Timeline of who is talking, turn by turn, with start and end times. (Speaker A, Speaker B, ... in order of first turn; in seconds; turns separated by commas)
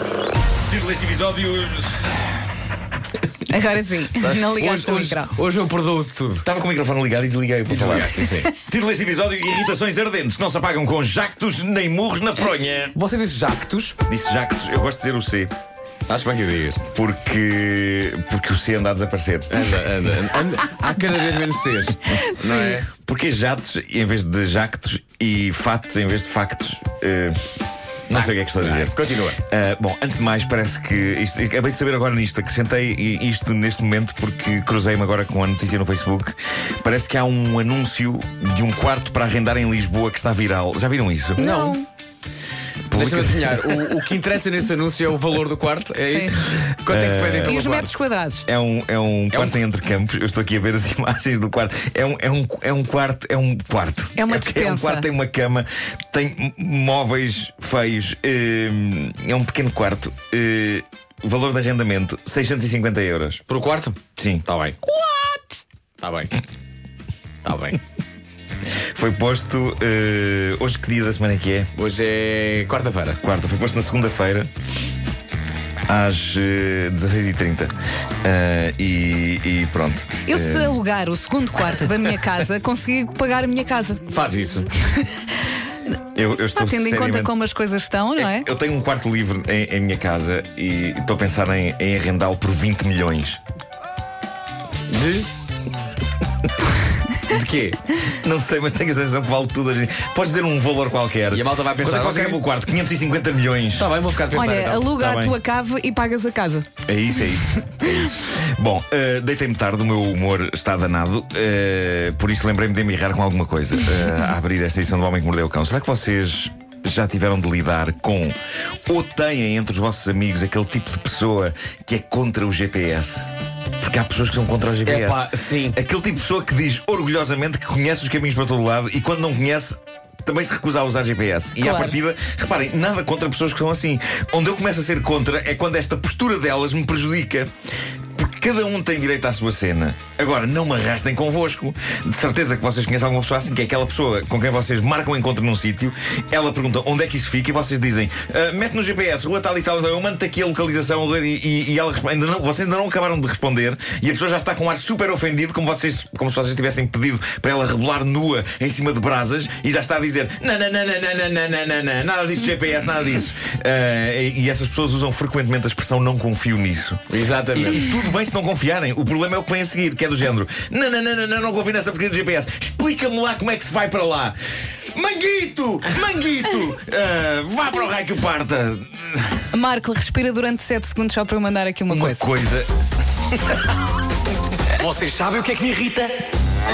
Speaker A: 0.7-2.3, Speaker B: 3.5-5.3, Speaker C: 4.2-6.5, Speaker A: 6.4-12.9, Speaker C: 7.7-8.5, Speaker C: 12.9-14.0, Speaker A: 14.1-15.5, Speaker C: 16.1-16.8, Speaker A: 16.9-19.6, Speaker C: 19.5-22.9, Speaker A: 22.5-27.4, Speaker A: 28.1-41.4, Speaker C: 28.1-29.4, Speaker B: 41.4-41.9, Speaker C: 41.4-41.8, Speaker A: 42.9-44.0, Speaker C: 42.9-48.0, Speaker B: 46.1-46.4, Speaker A: 46.9-47.6, Speaker B: 47.5-48.5, Speaker A: 48.5-63.4, Speaker B: 54.2-55.1, Speaker C: 63.5-64.8, Speaker A: 64.2-64.5, Speaker B: 64.8-65.6, Speaker C: 66.0-66.3, Speaker C: 67.4-67.8, Speaker A: 68.9-71.7, Speaker C: 71.8-73.2, Speaker A: 73.2-74.5, Speaker A: 75.9-80.8, Speaker B: 80.3-84.0, Speaker C: 84.1-84.7, Speaker A: 86.2-87.3, Speaker B: 86.5-88.5, Speaker A: 88.2-93.4, Speaker C: 94.9-95.3, Speaker C: 97.3-97.8, Speaker A: 98.1-103.9, Speaker C: 101.3-102.4, Speaker C: 103.8-104.9, Speaker B: 104.3-106.7, Speaker A: 104.8-105.4, Speaker A: 106.9-118.4, Speaker A: 118.9-137.5, Speaker C: 124.7-125.8, Speaker B: 131.6-132.0, Speaker A: 138.2-179.4, Speaker C: 167.1-167.9, Speaker B: 179.5-182.3, Speaker A: 181.9-182.7, Speaker A: 183.3-183.6, Speaker C: 184.7-186.1